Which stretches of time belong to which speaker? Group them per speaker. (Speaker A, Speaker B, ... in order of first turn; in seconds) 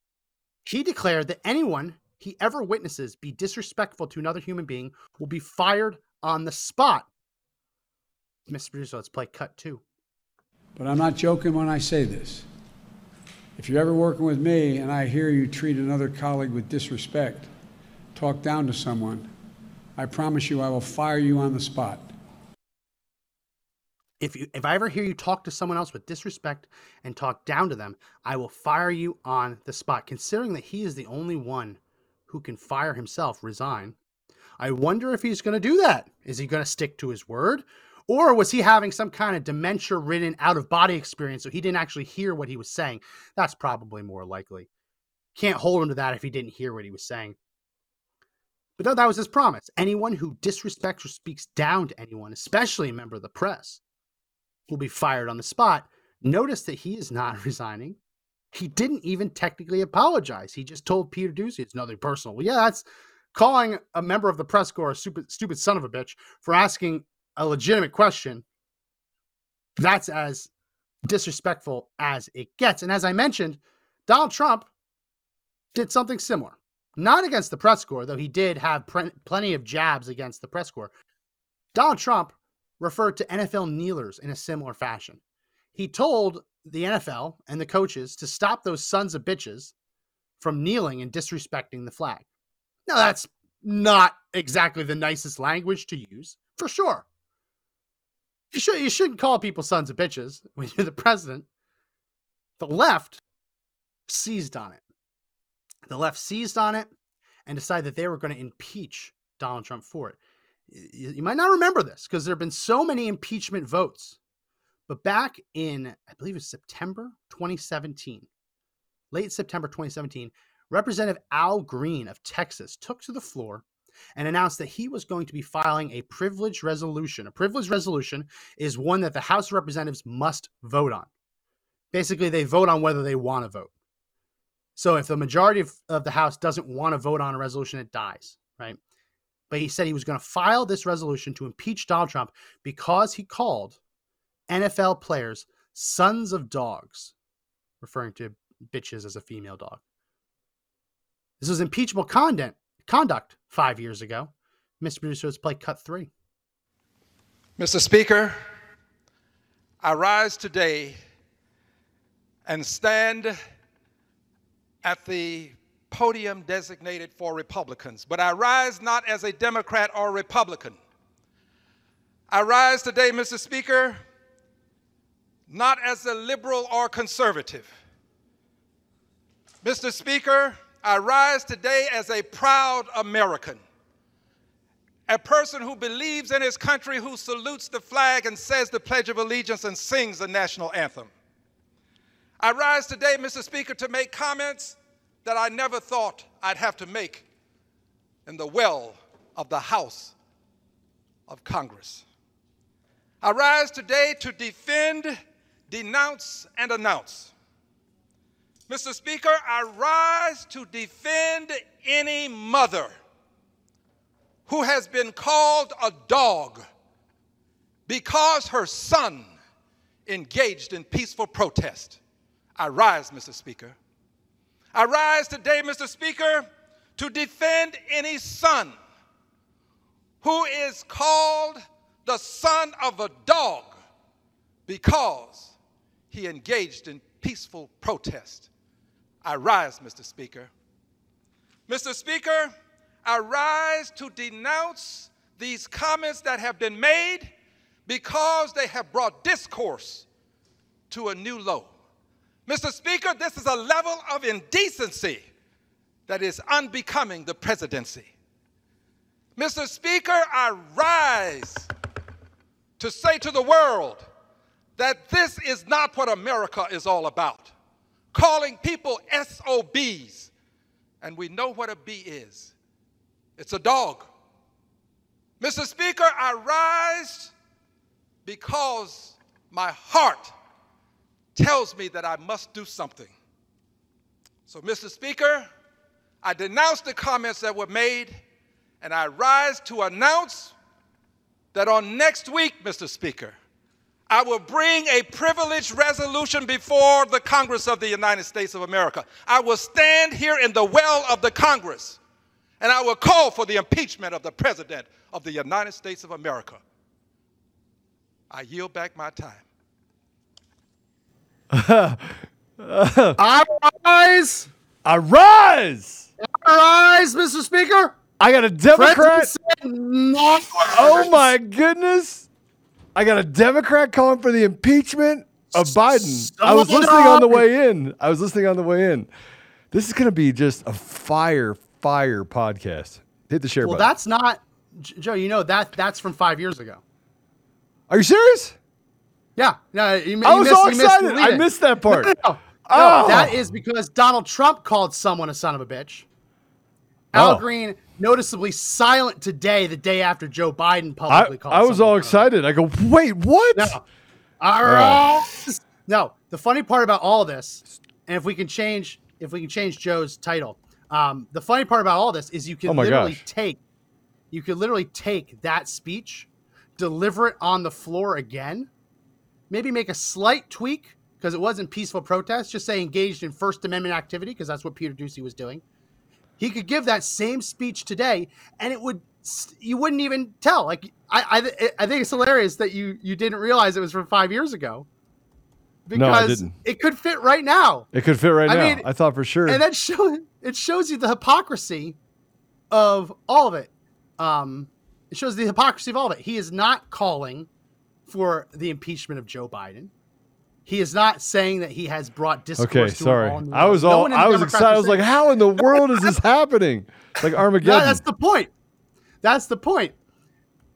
Speaker A: 0.7-7.1, 8.5-9.8, 24.2-34.0, 34.6-44.7, 45.4-47.4, 48.8-53.8, 54.7-58.0, 58.5-68.4, 69.8-70.5, 71.0-74.7, 75.8-80.9, 81.8-85.2, 85.8-89.7, 90.4-92.3, 92.9-97.0, 98.5-101.5, 102.6-103.2, 104.1-104.8, 105.9-106.9, 107.5-110.2, 110.7-114.2, 114.9-118.3, 119.1-123.6, 124.2-131.1, 131.9-133.7, 134.8-138.8, 139.5-143.8, 144.5-147.1, 147.8-149.8, 151.4-156.1, 313.2-314.5, 316.2-318.0, 318.7-321.2, 325.5-327.4, 333.6-336.8, 339.4-346.1, 347.1-352.3, 353.6-353.8, 354.4-363.6, 364.3-368.7, 369.5-375.6, 376.4-384.9, 385.9-387.9, 388.4-388.9, 389.5-392.0, 392.7-397.5, 398.1-399.9, 400.7-405.1, 405.6-406.1, 407.6-408.5, 409.2-409.9
Speaker B: 10.8-12.5, 13.6-17.5, 18.1-19.3, 20.0-22.1
Speaker C: 157.6-158.3, 159.8-161.0, 162.5-163.4, 164.8-170.8, 172.3-174.0, 175.5-177.7, 179.6-183.6, 185.1-191.1, 192.4-197.3, 198.3-200.1, 201.3-202.0, 203.2-205.2, 205.7-207.3, 208.7-212.9, 214.5-216.6, 217.9-219.3, 220.1-222.0, 222.6-223.8, 224.7-226.5, 227.0-228.8, 230.2-233.8, 234.7-235.5, 236.1-238.5, 239.2-240.5, 241.7-242.5, 243.0-247.3, 247.9-250.1, 250.9-251.7, 252.5-255.2, 256.1-258.1, 259.4-261.7, 262.8-264.1, 264.8-267.5, 268.1-270.3, 271.0-272.5, 273.4-274.1, 275.4-277.3, 278.2-280.3, 281.4-283.1, 284.5-285.5, 286.2-288.2, 288.8-290.5, 291.5-293.4, 294.1-302.0, 302.6-306.6, 308.3-309.4
Speaker D: 311.5-313.2, 314.8-316.1, 318.2-319.3, 320.7-322.3, 322.9-329.1, 329.7-333.9, 337.9-338.6, 340.2-343.4, 347.1-347.4, 351.1-353.8, 354.6-355.0, 362.7-363.2, 385.9-386.5, 387.9-389.6, 402.6-408.0